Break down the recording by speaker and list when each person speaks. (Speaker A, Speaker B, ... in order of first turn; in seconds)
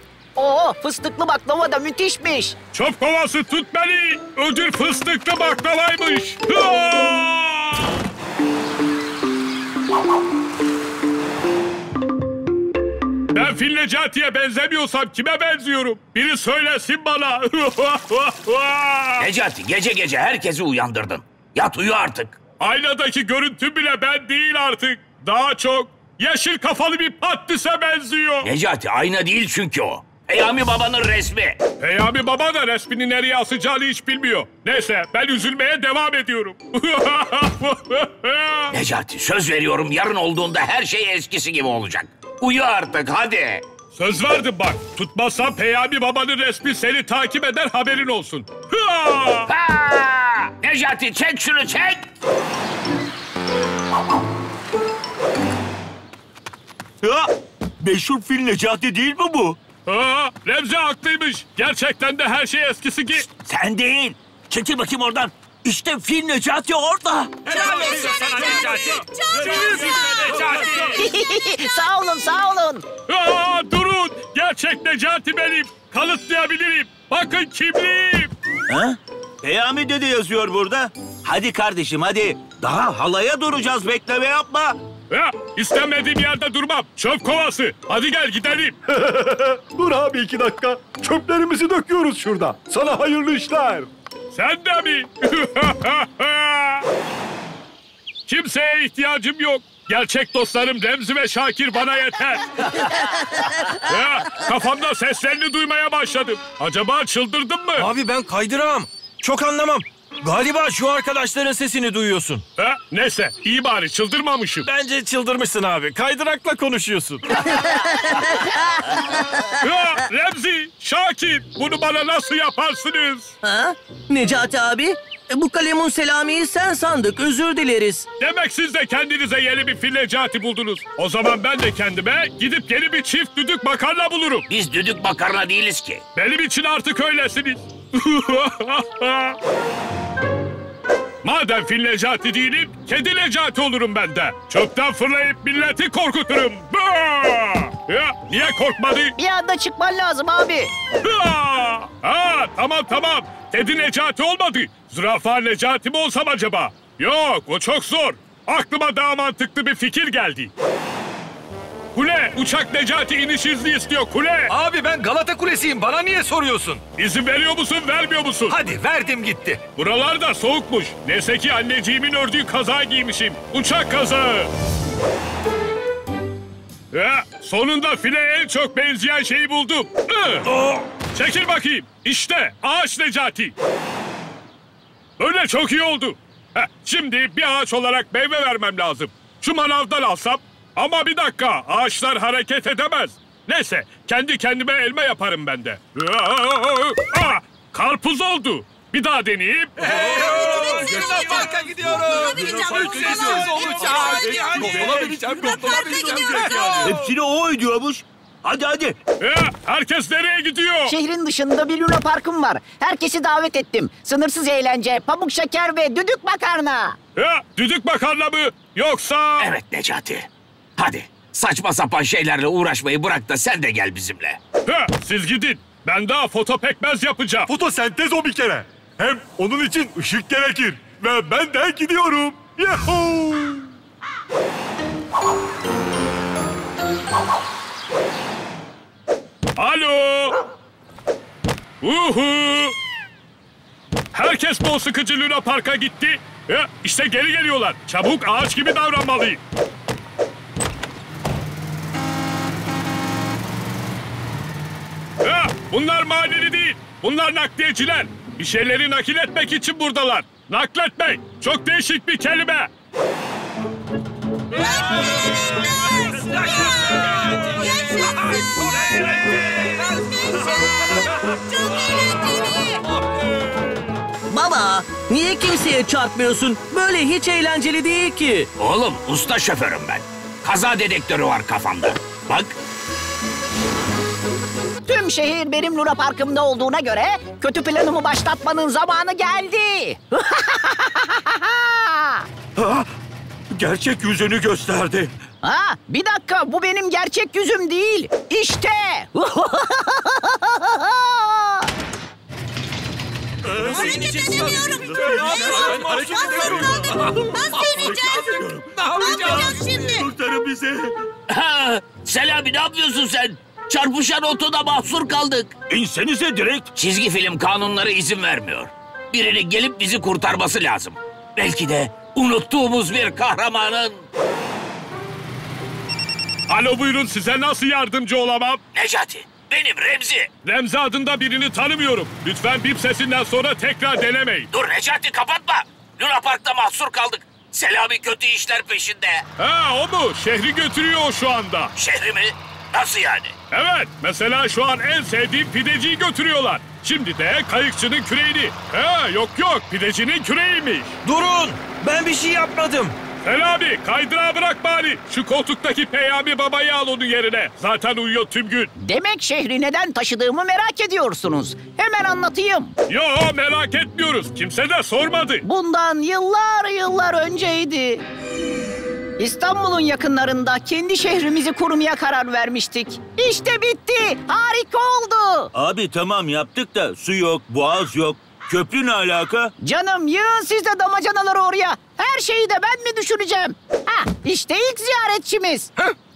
Speaker A: 0.3-2.5, 71.0-72.8, 149.2-150.7, 210.9-217.0, 284.8-292.2, 295.4-301.7, 358.8-362.7, 365.4-368.0, 369.2-375.5, 379.6-385.7
Speaker B: 2.7-7.8, 13.3-19.3, 22.6-28.5, 31.8-38.7, 43.9-49.5, 59.9-63.2, 69.5-70.8, 73.1-78.3, 85.1-88.8, 94.3-96.9, 98.3-102.9, 103.8-107.9, 112.6-114.7, 119.6-123.3, 128.2-134.5, 136.1-139.4, 141.2-149.1, 151.0-160.5, 161.9-164.5, 167.0-168.7, 169.8-174.5, 176.9-180.5, 181.0-183.5, 185.2-201.0, 209.2-210.9, 217.2-219.5, 224.7-227.5, 239.6-240.4, 241.8-242.7, 244.1-249.4, 255.2-262.7, 326.5-328.6, 330.4-334.5, 339.4-341.7, 343.5-351.0, 353.2-358.7, 362.9-365.4
Speaker C: 19.2-22.4, 28.4-31.6, 38.7-43.6, 49.5-52.0, 134.5-136.0, 219.4-220.3, 220.8-224.4, 278.6-282.5, 311.3-315.5, 316.7-324.1, 328.7-330.3, 334.5-339.2, 341.8-343.3
Speaker D: 57.0-59.6, 63.4-67.6, 78.7-84.8, 206.8-208.9, 292.6-292.8, 293.5-295.1, 304.8-310.9, 315.7-316.7, 375.5-379.5
Speaker E: 67.5-69.8, 303.7-308.2, 309.0-310.1
Speaker F: 67.5-69.0, 164.5-166.8, 168.5-169.6, 200.0-206.9, 267.0-267.4, 305.1-306.5
Speaker G: 67.8-68.4, 69.3-71.0, 107.8-112.4, 114.6-117.3, 303.7-304.2, 305.7-306.2, 351.0-352.9
Speaker H: 88.9-93.9, 202.5-203.5, 204.1-206.6, 227.5-233.7
Speaker I: 117.8-118.2, 119.3-119.6, 123.4-128.1, 274.3-278.5